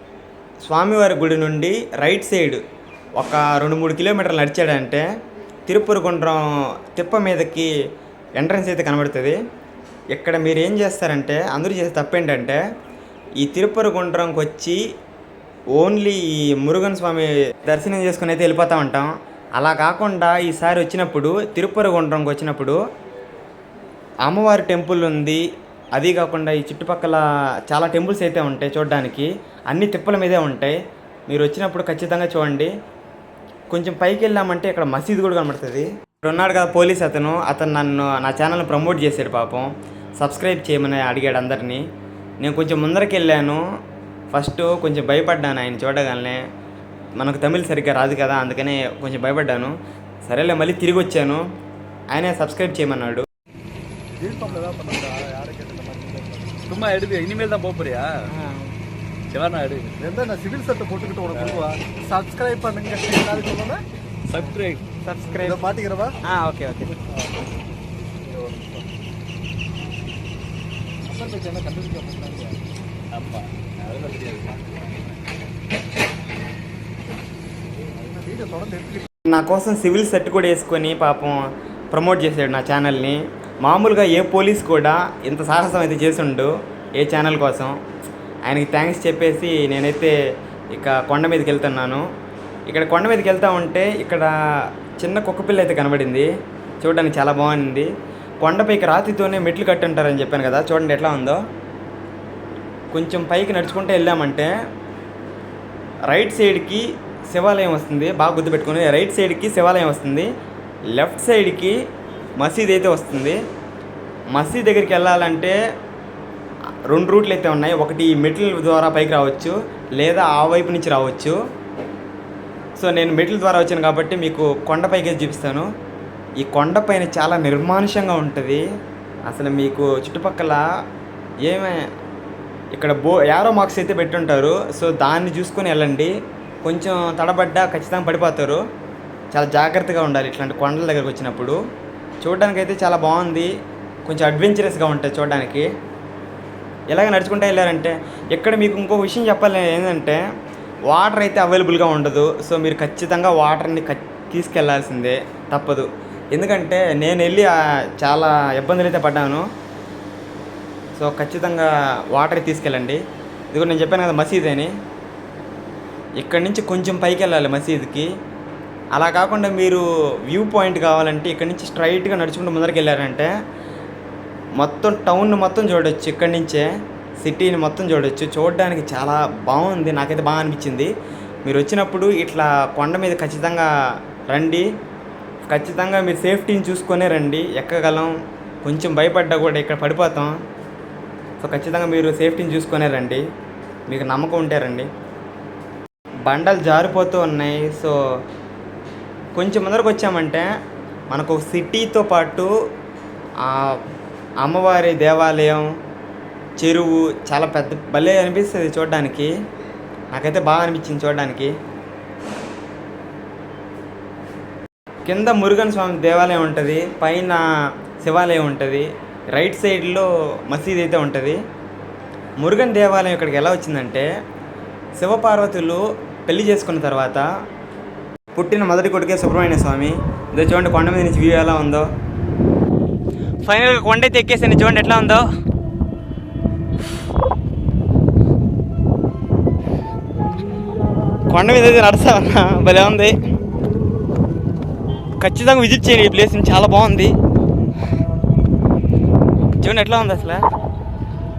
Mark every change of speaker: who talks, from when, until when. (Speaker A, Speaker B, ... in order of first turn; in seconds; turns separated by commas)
Speaker A: 0.7-2.6, Speaker A: 3.2-5.1, Speaker A: 5.7-7.7, Speaker A: 8.4-9.4, Speaker A: 10.1-12.6, Speaker A: 13.4-14.8, Speaker A: 15.8-22.8, Speaker A: 24.2-25.4, Speaker A: 25.9-30.8, Speaker A: 31.3-32.7, Speaker A: 33.7-41.9, Speaker A: 42.4-43.6, Speaker A: 44.3-46.4, Speaker A: 47.2-49.8, Speaker A: 50.3-51.4, Speaker A: 52.1-53.2, Speaker B: 54.2-56.6, Speaker C: 56.7-58.2, Speaker A: 58.3-58.7, Speaker C: 59.3-60.0, Speaker B: 60.0-63.8, Speaker C: 61.3-61.7, Speaker C: 64.3-64.8, Speaker A: 65.0-65.6, Speaker B: 65.4-66.2, Speaker A: 66.2-67.0, Speaker B: 68.2-68.8, Speaker B: 71.0-72.6, Speaker C: 73.1-75.0, Speaker B: 78.0-79.1, Speaker A: 79.3-81.4, Speaker A: 81.9-87.8, Speaker A: 88.5-90.1, Speaker A: 90.7-92.0, Speaker A: 92.7-94.3, Speaker A: 95.0-96.3, Speaker A: 96.8-97.9, Speaker A: 98.4-101.4, Speaker A: 102.9-104.5, Speaker A: 106.1-110.3, Speaker A: 111.0-111.8, Speaker A: 112.4-113.4, Speaker A: 114.3-115.6, Speaker A: 116.9-121.4, Speaker A: 122.8-125.7, Speaker A: 126.4-128.7, Speaker A: 129.3-130.6, Speaker A: 131.4-131.8, Speaker A: 132.7-136.1, Speaker A: 136.7-138.6, Speaker A: 139.3-141.6, Speaker A: 142.2-143.5, Speaker A: 144.1-145.7, Speaker A: 146.9-150.2, Speaker A: 150.9-159.5, Speaker A: 161.0-163.0, Speaker A: 163.5-164.7, Speaker A: 166.2-168.1, Speaker A: 168.9-173.3, Speaker A: 174.6-176.7, Speaker A: 177.2-180.9, Speaker A: 181.5-183.7, Speaker A: 184.3-184.7, Speaker A: 185.5-188.1, Speaker A: 188.7-190.4, Speaker A: 191.4-193.2, Speaker A: 193.9-194.9, Speaker A: 196.3-198.0, Speaker A: 199.4-200.5, Speaker A: 201.1-202.5, Speaker A: 203.4-203.8, Speaker A: 204.4-205.7, Speaker A: 206.6-209.3, Speaker A: 210.1-211.6, Speaker A: 215.1-217.4, Speaker A: 218.0-221.4, Speaker A: 222.4-224.1, Speaker A: 225.0-227.3, Speaker A: 228.3-231.9, Speaker A: 233.4-235.2, Speaker A: 241.3-243.2, Speaker A: 245.2-247.1, Speaker A: 249.6-250.4